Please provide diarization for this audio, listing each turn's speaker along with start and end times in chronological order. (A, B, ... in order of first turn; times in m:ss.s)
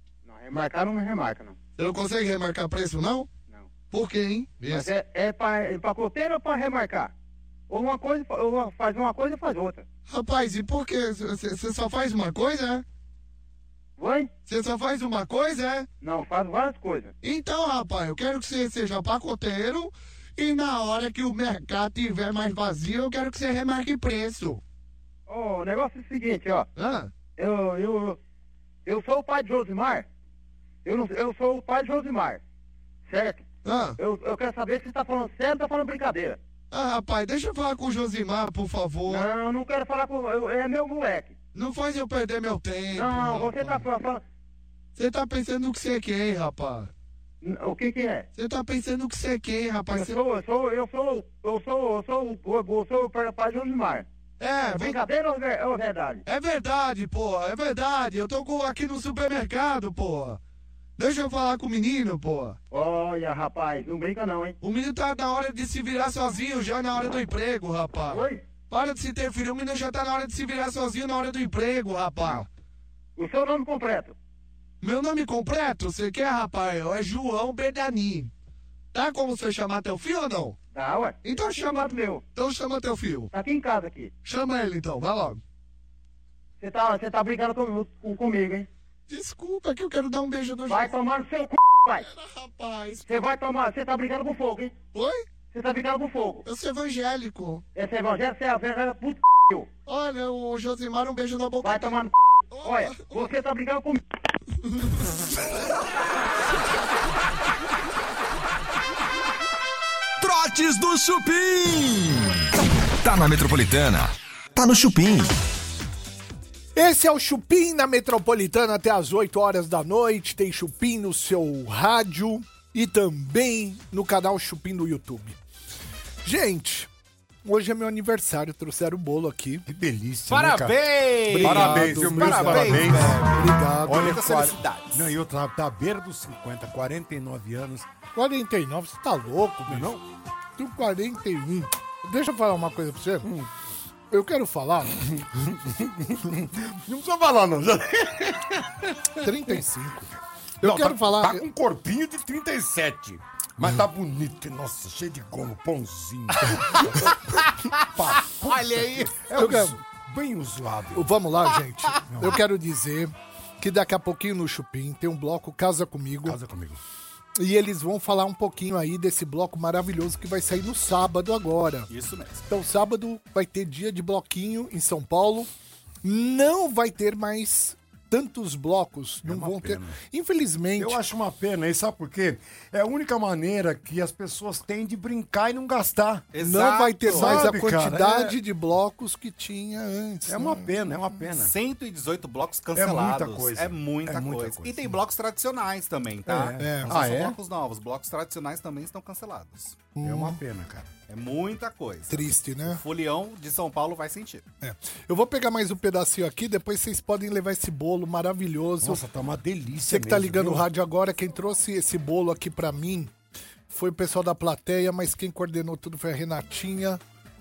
0:00.2-0:01.6 A
0:01.8-0:03.3 B
0:03.9-0:04.9 B
0:04.7-0:07.1 A
0:07.7-0:09.8 A
0:10.1-0:12.8 B
0:14.0-0:14.3 A
0:14.5-0:15.9 B
0:16.0-0:17.1 A
0:17.2-0:24.6 B
0:25.3-0:26.7 A
0:26.8-0:27.1 B
0:27.4-0:28.2 A
0:28.8-0:30.1 A
0:30.8-0:32.4 A
0:33.1-0:33.4 A
0:33.6-0:34.0 B
0:34.0-0:36.4 A
0:36.7-0:39.3 B
0:39.1-0:41.3 A
0:41.5-0:43.8 B
0:42.9-0:44.2 A
0:45.0-0:46.9 B
0:47.4-0:48.3 A
0:48.4-0:50.2 B
0:49.9-0:54.1 A
0:54.4-0:55.0 B
0:54.7-0:56.2 A
0:56.3-1:00.4 B
1:01.0-1:02.6 B
1:02.7-1:04.6 A
1:04.6-1:12.5 B
1:08.1-1:08.4 A
1:13.2-1:14.2 A
1:14.8-1:18.3 B
1:18.9-1:20.6 B
1:20.7-1:22.2 A
1:21.2-1:23.3 B
1:23.3-1:24.1 A
1:24.2-1:25.4 B
1:26.6-1:28.7 A
1:29.1-1:30.9 B
1:30.7-1:32.0 A
1:32.0-1:33.1 B
1:33.1-1:34.7 A
1:34.9-1:35.2 B
1:35.5-1:36.4 A
1:36.4-1:37.6 B
1:37.8-1:39.7 A
1:39.9-1:42.0 B
1:41.6-1:42.1 A
1:42.5-1:43.3 B
1:42.6-1:44.0 A
1:44.6-1:45.2 B
1:50.2-1:55.4 C
1:56.8-2:05.4 D
2:06.2-2:06.9 D
2:07.4-2:09.6 D
2:09.7-2:10.8 E
2:10.3-2:15.1 F
2:11.3-2:14.2 D
2:11.4-2:13.3 E
2:13.8-2:17.9 E
2:18.2-2:20.0 D
2:19.7-2:20.0 E
2:20.6-2:23.3 D
2:23.2-2:23.5 E
2:24.1-2:25.1 D
2:25.1-2:28.9 E
2:29.2-2:30.1 D
2:30.6-2:31.4 D
2:30.6-2:41.1 E
2:38.4-2:39.1 F
2:39.4-2:39.8 D
2:40.9-2:46.4 D
2:42.1-2:42.4 E
2:46.2-2:46.8 E
2:47.4-2:51.9 D
2:51.9-2:52.5 F
2:52.5-2:55.5 D
2:56.0-3:01.0 D
2:59.2-3:00.0 E
3:00.8-3:06.3 E
3:06.3-3:07.5 F
3:06.4-3:10.7 D
3:07.1-3:08.4 E
3:10.3-3:11.5 E
3:11.4-3:19.8 F
3:12.8-3:15.0 E
3:16.3-3:17.4 E
3:16.6-3:16.9 D
3:20.0-3:20.4 D
3:20.0-3:20.9 E
3:21.1-3:24.5 F
3:22.1-3:22.8 D
3:24.6-3:29.0 D
3:28.8-3:30.7 E
3:29.9-3:33.1 D
3:33.7-3:37.0 D